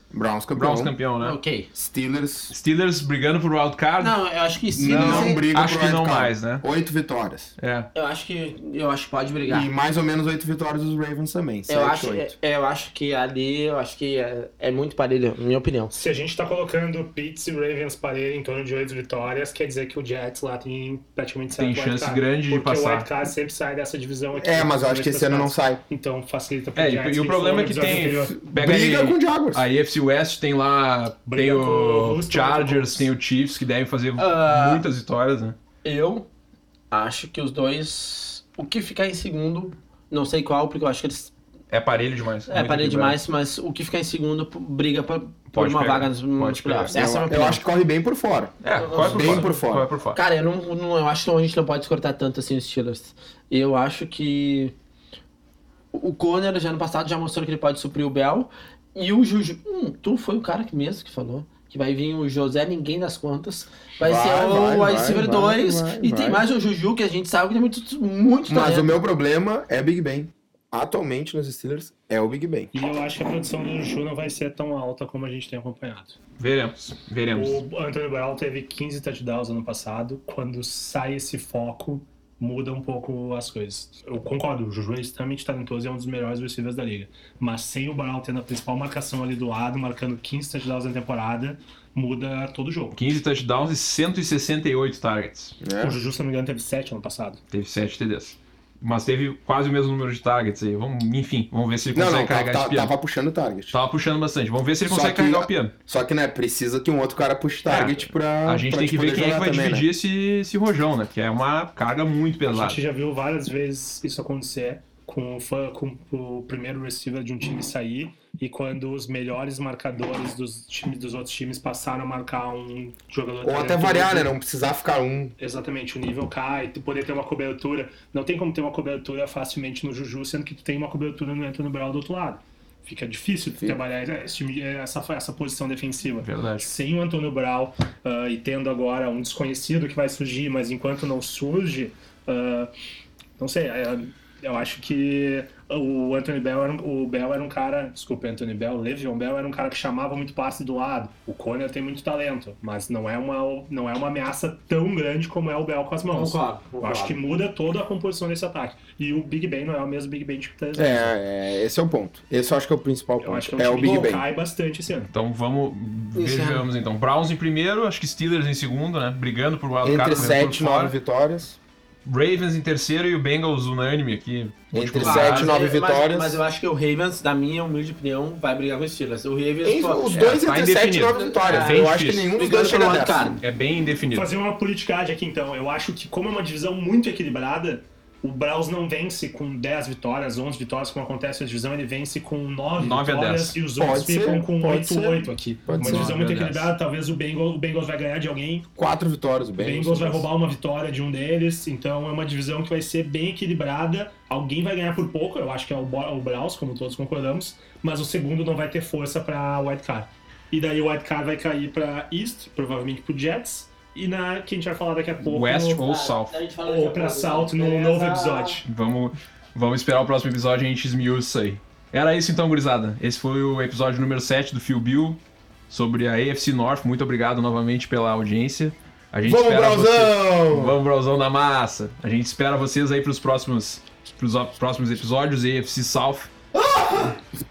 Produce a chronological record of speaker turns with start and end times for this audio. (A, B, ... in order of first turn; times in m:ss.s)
0:00.1-0:00.9 A
0:00.5-0:01.4 B
0:01.2-0:01.7 C
0:01.7-0:02.5 A
0:02.5-0:04.1 B
0:04.0-0:05.4 C
0:04.8-0:07.5 A
0:04.8-0:06.6 B
0:07.6-0:07.9 B
0:07.9-0:09.7 C
0:09.4-0:12.3 A
0:11.7-0:15.9 C
0:15.9-0:28.4 D
0:21.5-0:23.1 B
0:24.4-0:25.8 A
0:26.8-0:35.6 B
0:28.5-0:29.6 A
0:31.2-0:33.1 D
0:34.2-0:34.8 C
0:35.8-0:36.3 C
0:36.9-0:41.3 C
0:41.7-0:43.2 B
0:42.5-0:47.6 C
0:45.5-0:46.9 B
0:46.9-0:49.9 A
0:48.6-0:50.2 B
0:48.8-0:49.6 C
0:50.1-0:54.7 C
0:55.9-1:09.0 C
1:04.0-1:06.4 A
1:08.5-1:12.7 A
1:12.7-1:16.2 D
1:16.4-1:17.6 B
1:17.3-1:33.0 D
1:32.9-1:35.6 B
1:35.6-1:36.0 A
1:35.8-1:37.4 D
1:37.5-1:42.9 B
1:41.9-1:43.7 A
1:43.7-1:45.7 B
1:44.9-1:49.8 A
1:47.7-1:52.8 B
1:52.5-2:04.3 D
2:03.4-2:05.4 A
2:05.4-2:22.7 D
2:16.2-2:16.7 B
2:23.4-2:41.1 D
2:36.1-2:37.2 C
2:40.7-2:44.2 A
2:43.2-2:45.1 D
2:43.8-2:44.1 C
2:45.1-2:50.9 B
2:46.1-2:46.7 C
2:49.8-2:51.6 A
2:52.0-2:55.5 B
2:54.7-2:56.4 A
2:55.0-3:00.1 C
2:59.6-3:03.3 A
3:00.1-3:02.3 B
3:01.2-3:03.4 C
3:03.4-3:04.3 B
3:04.1-3:18.7 D
3:12.8-3:13.6 B
3:13.8-3:14.7 A
3:14.6-3:15.3 C
3:15.6-3:16.1 A
3:15.8-3:16.7 B
3:18.8-3:20.3 A
3:19.6-3:35.8 D
3:35.2-3:36.3 B
3:35.8-3:38.6 C
3:36.6-3:38.6 D
3:38.6-3:56.3 B
3:49.2-3:50.8 A
3:56.5-3:57.2 A